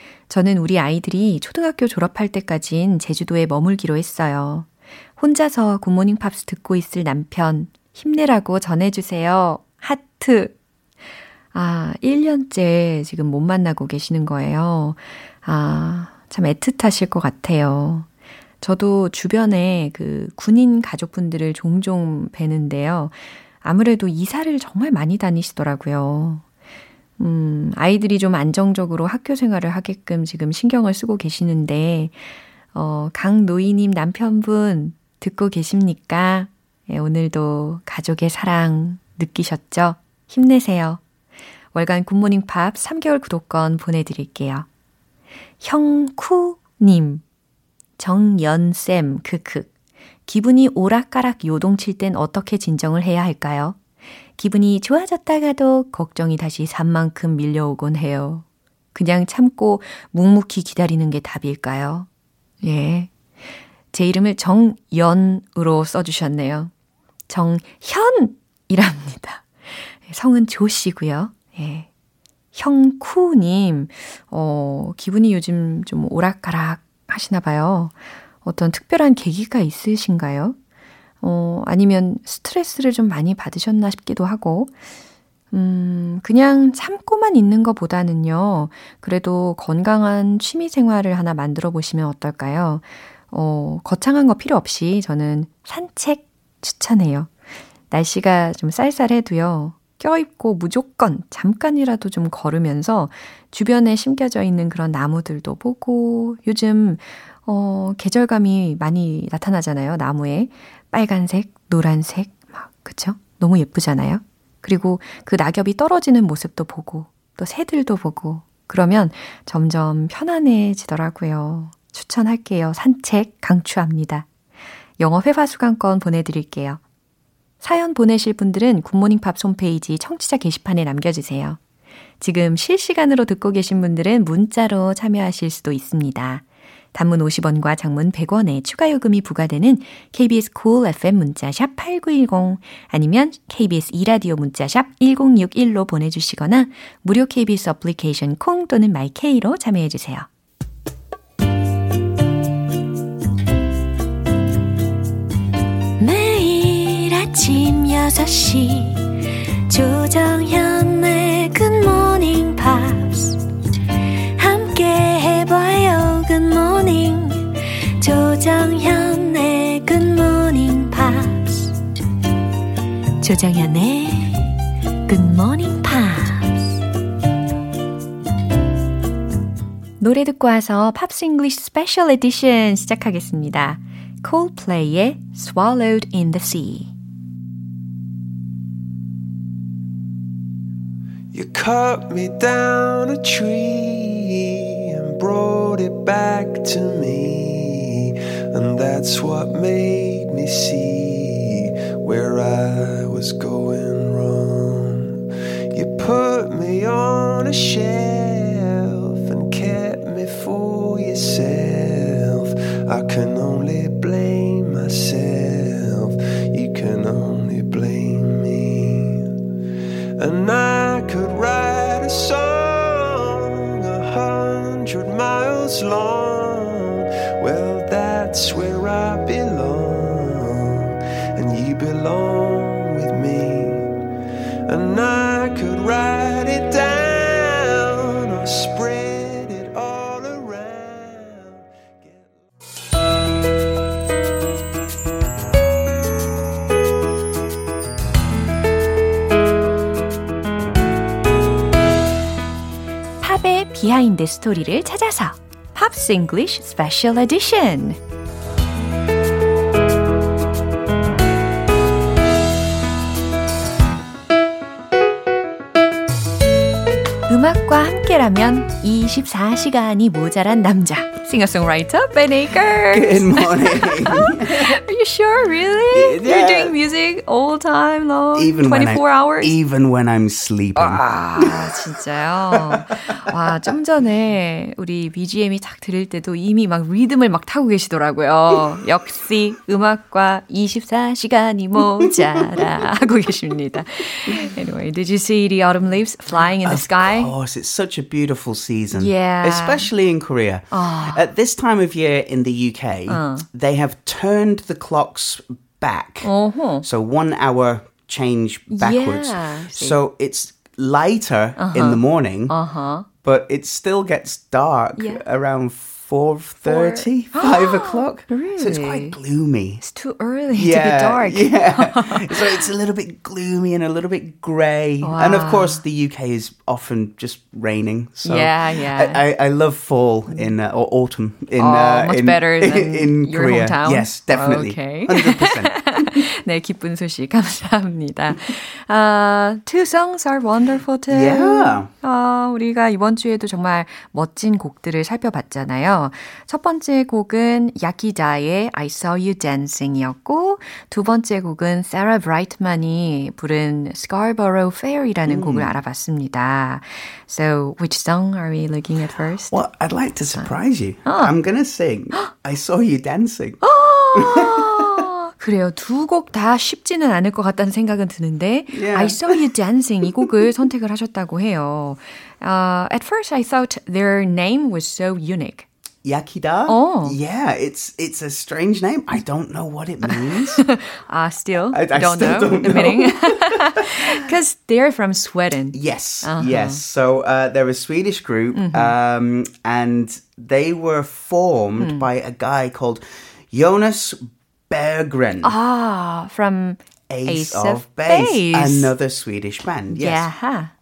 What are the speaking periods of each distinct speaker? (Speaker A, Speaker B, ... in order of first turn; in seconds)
Speaker A: 0.3-10.5, 11.5-18.1, 18.6-26.4, 27.2-32.2, 32.7-41.0, 41.7-44.6, 45.6-47.2, 48.0-49.7, 50.3-53.8, 54.4-62.1, 62.6-63.1, 63.9-66.7, 67.3-71.9, 72.5-80.5, 81.2-84.8, 85.5-97.3, 97.9-124.3, 125.0-126.8, 127.6-131.6, 132.2-150.3, 156.0-163.4, 164.3-171.7, 173.2-176.7, 180.0-186.9, 253.2-258.0, 267.3-279.5, 280.8-297.3, 298.9-299.9, 300.7-301.2, 303.1-303.5, 306.2-306.8, 308.7-310.0, 311.6-313.1, 315.0-315.2, 316.6-319.1, 319.8-322.6, 325.0-325.8, 328.2-329.2, 331.6-359.6, 361.1-361.3, 363.6-375.7, 376.7-377.2, 380.1-386.8, 388.5-388.9, 391.8-392.1, 395.4-398.9, 399.9-400.7
Speaker B: 191.3-219.3, 220.2-233.9, 234.7-242.4
Speaker C: 272.9-274.8, 275.9-276.7, 278.4-281.6, 282.5-282.8, 292.0-292.6, 296.6-306.3, 306.8-312.6, 313.2-319.8, 320.5-336.2, 341.1-341.9, 355.2-355.7, 359.5-363.6, 364.1-365.0, 368.7-369.4, 376.0-380.6, 381.7-384.0, 385.7-395.5, 397.1-400.3